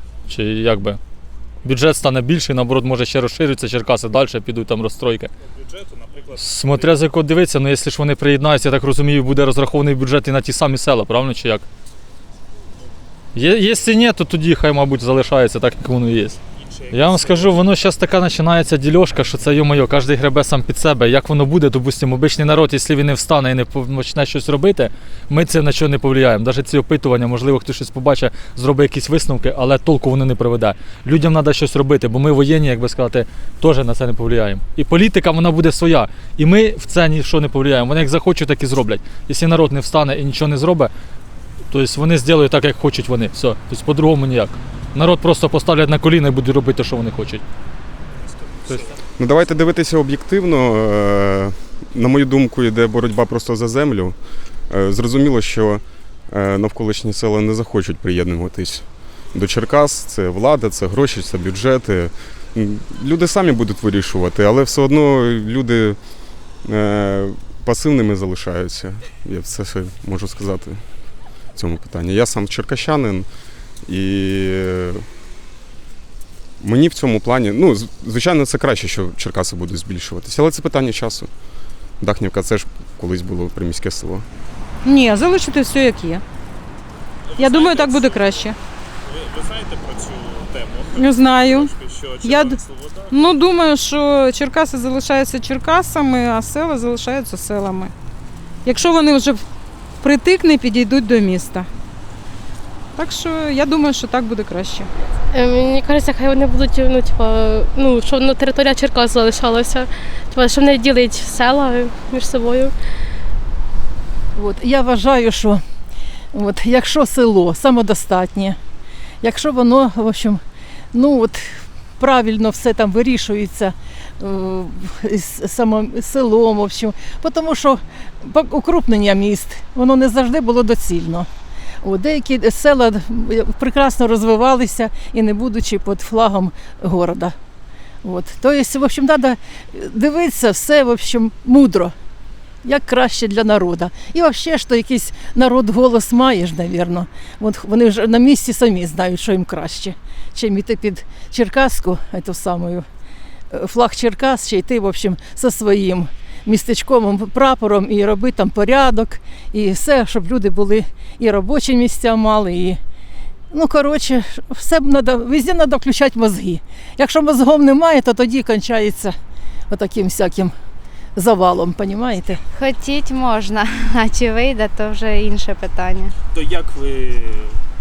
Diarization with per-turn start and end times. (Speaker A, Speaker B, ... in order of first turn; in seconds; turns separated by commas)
Speaker A: 0.3-1.0, Speaker A: 1.6-5.3, Speaker B: 5.5-7.0, Speaker A: 6.4-11.7, Speaker A: 13.3-16.4, Speaker B: 16.6-17.6, Speaker A: 16.9-40.9, Speaker A: 41.7-47.4, Speaker C: 49.2-54.2, Speaker C: 54.7-66.0, Speaker C: 66.7-70.8, Speaker C: 71.6-73.3, Speaker C: 73.9-75.1, Speaker C: 76.6-81.3, Speaker C: 82.0-84.3, Speaker D: 84.8-86.2, Speaker B: 87.3-88.5, Speaker D: 87.4-88.6, Speaker B: 89.0-93.3, Speaker D: 91.0-91.7, Speaker D: 92.2-92.6, Speaker D: 93.1-97.9, Speaker D: 98.7-99.4, Speaker D: 100.0-101.7, Speaker D: 103.0-104.9, Speaker E: 105.3-112.7, Speaker F: 114.3-115.6, Speaker F: 116.3-118.6, Speaker F: 119.2-120.4, Speaker F: 120.9-121.4, Speaker F: 122.0-131.3, Speaker F: 131.8-137.3, Speaker F: 138.0-141.9, Speaker F: 142.6-152.9, Speaker F: 153.5-162.8, Speaker F: 163.5-169.2, Speaker F: 169.7-170.5, Speaker F: 171.2-172.4, Speaker G: 172.5-176.1, Speaker B: 176.3-177.6